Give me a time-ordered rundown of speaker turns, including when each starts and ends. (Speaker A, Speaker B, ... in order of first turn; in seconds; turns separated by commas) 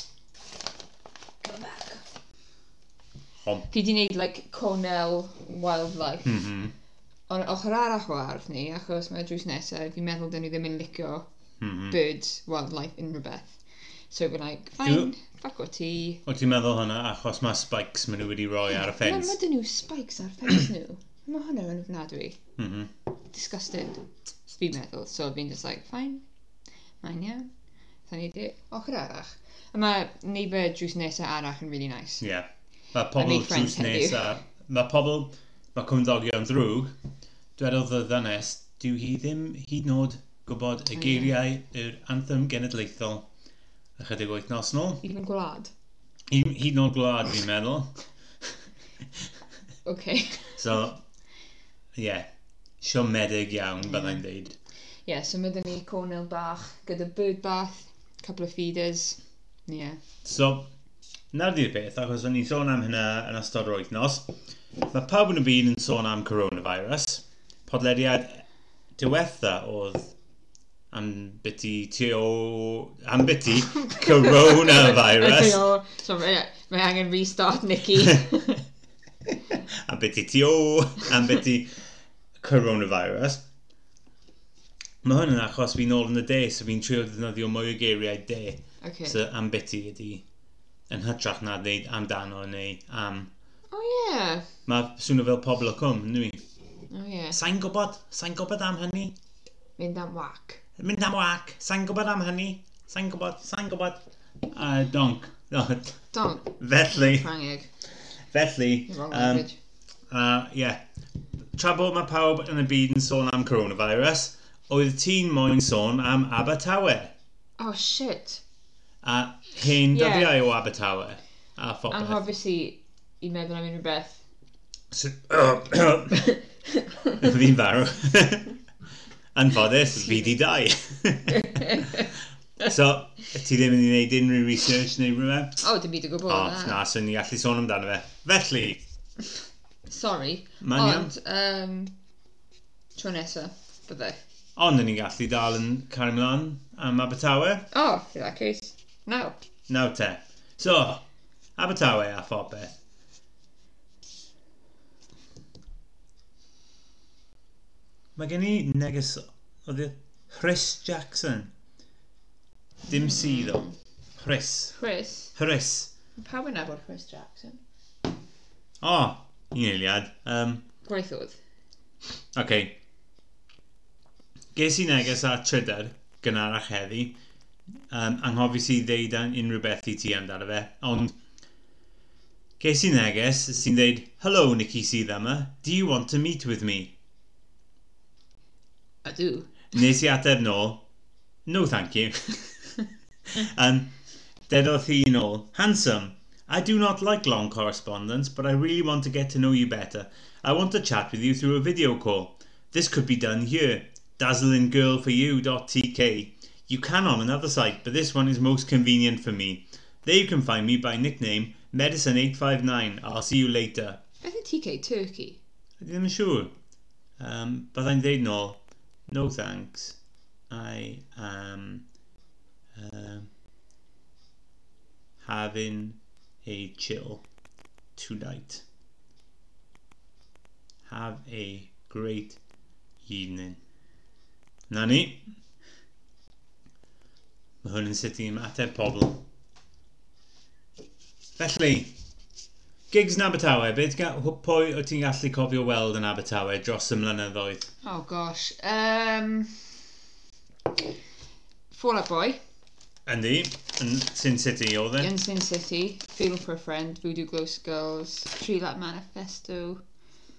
Speaker A: 1.4-2.1, Speaker A: 3.7-6.4, Speaker B: 6.2-6.7, Speaker A: 7.3-11.3, Speaker B: 11.6-12.0, Speaker A: 11.9-13.6, Speaker A: 14.1-16.2, Speaker B: 14.8-15.1, Speaker B: 16.3-19.4, Speaker A: 18.8-22.4, Speaker B: 22.6-22.9, Speaker A: 23.3-26.2, Speaker A: 27.0-27.5, Speaker A: 28.1-32.2, Speaker B: 32.2-37.0, Speaker A: 33.2-34.3, Speaker B: 37.6-43.3, Speaker A: 40.9-41.3, Speaker B: 44.0-45.0, Speaker A: 45.0-45.7, Speaker B: 46.3-48.0, Speaker A: 49.9-50.6, Speaker B: 50.6-51.0, Speaker B: 52.0-52.3, Speaker B: 52.8-54.6, Speaker A: 53.8-54.2, Speaker A: 55.0-60.0, Speaker B: 60.2-60.7, Speaker B: 61.3-68.5, Speaker B: 69.0-70.2, Speaker B: 70.9-75.6, Speaker A: 73.9-78.7, Speaker B: 79.5-81.8, Speaker B: 82.4-83.5, Speaker B: 85.0-90.2, Speaker A: 88.8-89.2, Speaker B: 90.9-93.3, Speaker A: 93.7-94.5, Speaker B: 94.7-96.4, Speaker A: 96.9-97.4, Speaker B: 97.3-99.2, Speaker A: 99.8-100.6, Speaker B: 100.8-107.3, Speaker A: 106.1-107.7, Speaker B: 108.3-109.5, Speaker A: 108.9-109.6, Speaker B: 110.1-110.8, Speaker B: 111.6-117.1, Speaker A: 117.6-118.4, Speaker B: 119.0-122.2, Speaker A: 119.9-120.4, Speaker A: 121.9-124.2, Speaker B: 124.9-126.4, Speaker A: 126.2-127.3, Speaker B: 127.2-128.6, Speaker B: 129.3-135.6, Speaker A: 131.3-132.1, Speaker A: 135.6-136.8, Speaker B: 136.3-138.8, Speaker A: 139.9-141.9, Speaker B: 140.6-141.1, Speaker A: 142.9-144.2, Speaker B: 144.6-147.7, Speaker A: 147.7-149.4, Speaker B: 149.7-151.0, Speaker B: 151.6-152.8, Speaker B: 158.2-161.5, Speaker B: 162.9-164.8, Speaker A: 162.9-163.7, Speaker A: 164.8-165.3, Speaker B: 165.3-165.9, Speaker A: 166.2-167.6, Speaker B: 168.8-170.7, Speaker A: 170.8-171.4, Speaker B: 172.3-172.8, Speaker B: 174.6-177.2, Speaker B: 177.9-181.2, Speaker B: 182.6-186.9, Speaker A: 189.0-189.7, Speaker B: 189.7-190.8, Speaker B: 191.5-193.9, Speaker B: 194.5-214.0, Speaker A: 214.2-215.4, Speaker B: 215.8-216.5, Speaker B: 217.2-220.0, Speaker B: 220.5-221.9, Speaker B: 222.8-223.3, Speaker B: 225.2-227.2, Speaker B: 228.0-228.6, Speaker B: 230.9-232.4, Speaker B: 233.1-233.6, Speaker B: 234.7-235.3, Speaker B: 237.6-239.2, Speaker B: 241.4-241.9, Speaker B: 242.9-247.7, Speaker A: 247.8-249.9, Speaker A: 251.7-252.4, Speaker B: 253.1-255.1, Speaker A: 255.0-259.8